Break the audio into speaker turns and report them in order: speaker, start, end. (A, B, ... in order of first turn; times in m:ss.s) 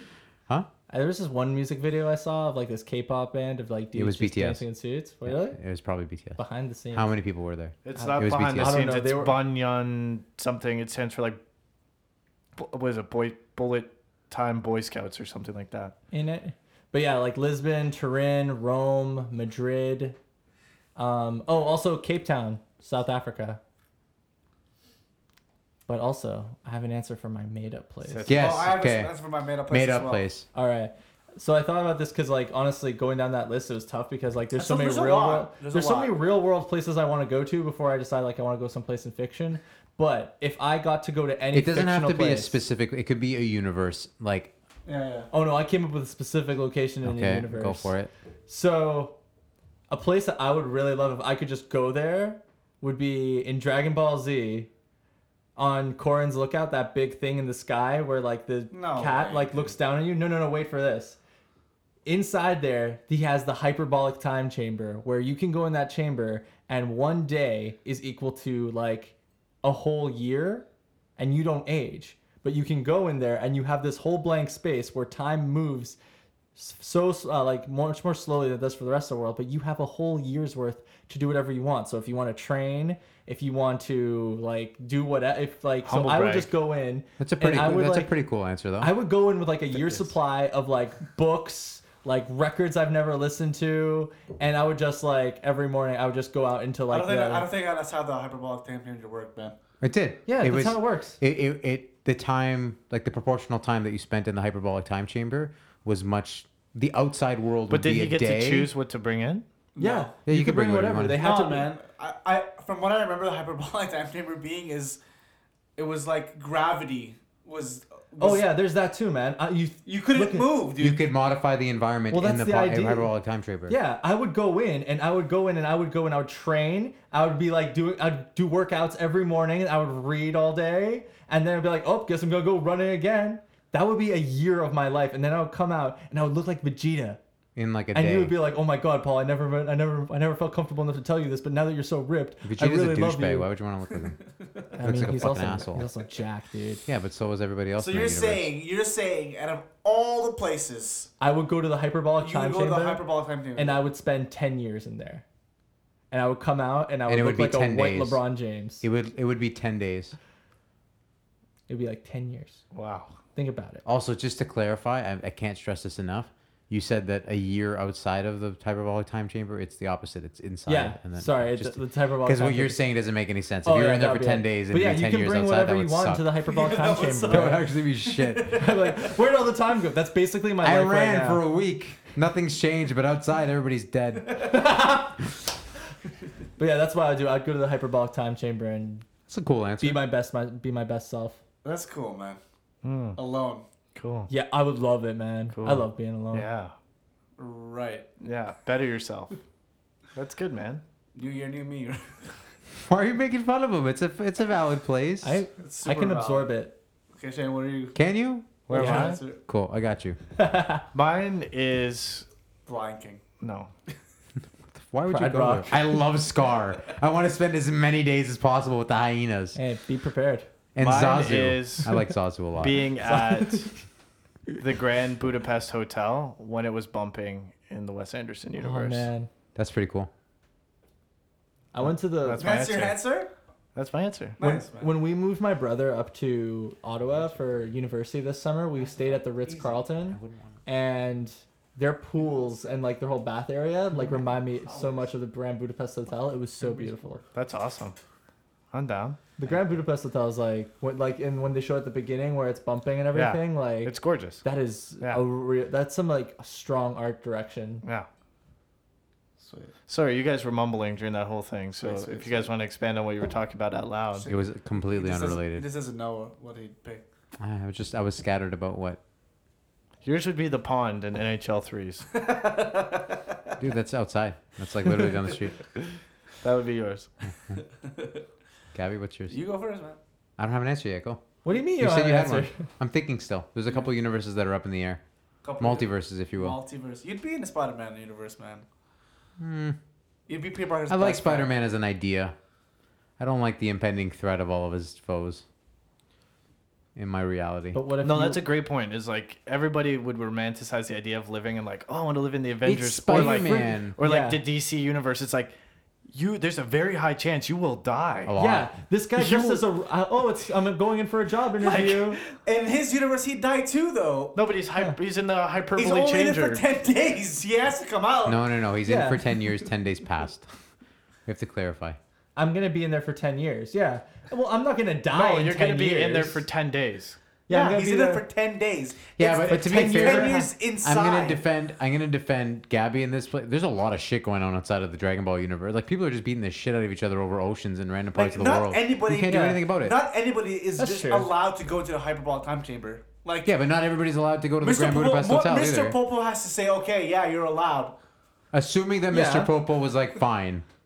0:00.9-0:05.6 A
0:04.0-0:04.6 B
0:05.2-0:06.4 B
0:06.4-0:07.1 A
0:06.9-0:08.9 B
0:07.8-0:11.4 C
0:08.0-0:09.4 A
0:12.6-0:16.0 C
0:16.1-0:20.2 A
0:21.0-0:23.6 A
0:25.9-0:28.3 A
0:28.0-0:28.7 C
0:28.3-0:29.1 B
0:28.3-0:30.3 D
0:29.7-0:30.5 B
0:30.5-0:42.6 A
0:34.6-0:36.2 D
0:41.5-0:44.5 B
0:44.9-0:45.3 D
0:45.3-0:47.9 A
0:47.0-0:48.1 B
0:48.5-0:49.2 A
0:49.9-0:54.7 A
0:55.6-1:01.2 A
0:58.7-0:59.7 D
1:02.0-1:10.7 A
1:11.2-1:16.0 A
1:16.6-1:28.1 A
1:25.8-1:26.5 C
1:27.2-1:28.9 B
1:28.8-1:37.5 A
1:36.9-1:39.6 D
1:39.8-1:48.7 B
1:40.3-1:41.2 A
1:47.7-1:49.4 C
1:49.8-1:50.1 D
1:49.8-1:51.7 A
1:50.3-1:51.3 B
1:51.1-1:55.0 D
1:55.8-1:58.5 D
1:58.2-2:00.5 A
1:59.8-2:01.1 D
2:00.8-2:03.8 B
2:02.1-2:03.1 A
2:03.7-2:17.2 A
2:17.6-2:18.4 B
2:17.9-2:23.5 A
2:22.4-2:24.2 B
2:24.7-2:26.8 A
2:24.8-2:25.9 B
2:26.9-2:28.5 B
2:27.8-2:31.1 D
2:31.2-2:35.2 A
2:32.2-2:33.8 D
2:36.1-2:38.8 A
2:37.1-2:38.2 B
2:38.8-2:40.2 B
2:41.7-2:42.6 A
2:42.7-2:43.2 C
2:43.4-2:43.8 A
2:43.8-2:56.4 B
2:50.7-2:52.8 A
2:53.6-2:57.6 A
2:56.5-2:59.1 D
2:57.3-2:58.5 B
2:58.6-3:01.4 A
3:00.6-3:04.6 B
3:04.4-3:05.2 A
3:06.6-3:09.1 A
3:09.3-3:10.1 B
3:09.8-3:11.4 A
3:11.6-3:12.4 D
3:12.8-3:13.2 C
3:13.2-3:13.6 D
3:14.0-3:14.3 C
3:14.3-3:16.5 A
3:15.5-3:16.7 C
3:17.4-3:18.1 D
3:18.2-3:19.4 C
3:20.2-3:20.8 C
3:21.2-3:22.3 D
3:22.7-3:25.4 B
3:25.2-3:26.8 A
3:25.6-3:26.5 D
3:27.2-3:28.0 D
3:28.0-3:30.2 B
3:28.7-3:29.2 C
3:28.7-3:29.4 D
3:28.7-3:29.1 A
3:30.4-3:30.8 A
3:30.9-3:32.3 C
3:32.7-3:33.2 D
3:33.4-3:33.7 C
3:34.7-3:39.6 B
3:35.1-3:36.0 A
3:39.6-3:40.5 A
3:40.8-3:42.9 B
3:40.8-3:41.9 C
3:42.6-3:43.7 C
3:43.0-3:43.7 A
3:44.6-3:49.1 C
3:48.6-3:49.3 A
3:49.6-3:50.1 B
3:51.7-3:52.5 A
3:52.2-3:53.0 C
3:52.4-3:53.3 D
3:53.8-3:54.4 C
3:54.4-3:54.9 D
3:54.4-4:07.2 A
3:59.4-3:59.7 D
4:00.1-4:00.5 B
4:04.7-4:05.0 D
4:06.6-4:07.2 D
4:07.3-4:08.0 C
4:08.7-4:09.2 C
4:09.4-4:17.8 A
4:13.1-4:14.4 C
4:19.4-4:19.7 D
4:19.9-4:24.3 C
4:21.8-4:22.5 D
4:24.2-4:27.0 D
4:24.3-4:25.7 B
4:27.4-4:29.0 B
4:30.0-4:32.1 C
4:32.1-4:33.5 D
4:33.6-4:35.6 B
4:36.4-4:37.1 C
4:37.5-4:38.2 D
4:38.7-4:39.4 B
4:39.3-4:40.0 D
4:40.4-4:41.2 B
4:41.4-4:42.6 A
4:41.8-4:45.0 B
4:45.4-4:48.6 D
4:45.6-4:46.6 B
4:49.4-4:49.8 B
4:50.3-4:51.5 D
4:50.9-4:52.4 B
4:53.2-4:55.4 B
4:57.0-4:57.8 B
4:57.7-4:58.4 A
4:58.0-5:05.6 C
5:02.6-5:04.0 B
5:03.1-5:04.4 A
5:06.1-5:08.3 C
5:08.3-5:08.7 B
5:08.4-5:12.2 A
5:09.2-5:09.7 C
5:11.6-5:12.2 C
5:12.3-5:14.4 D
5:14.4-5:16.6 C
5:15.8-5:18.4 D
5:18.3-5:20.5 B
5:18.8-5:19.2 A
5:21.3-5:22.0 B
5:22.4-5:26.4 A
5:25.1-5:27.2 C
5:27.5-5:28.2 A
5:27.5-5:31.4 D
5:29.2-5:40.0 B
5:29.5-5:30.5 A
5:38.2-5:43.5 D
5:39.2-5:39.6 A
5:40.8-5:41.3 A
5:43.4-5:46.0 B
5:44.6-5:48.0 D
5:48.5-5:50.6 B
5:49.1-5:49.5 A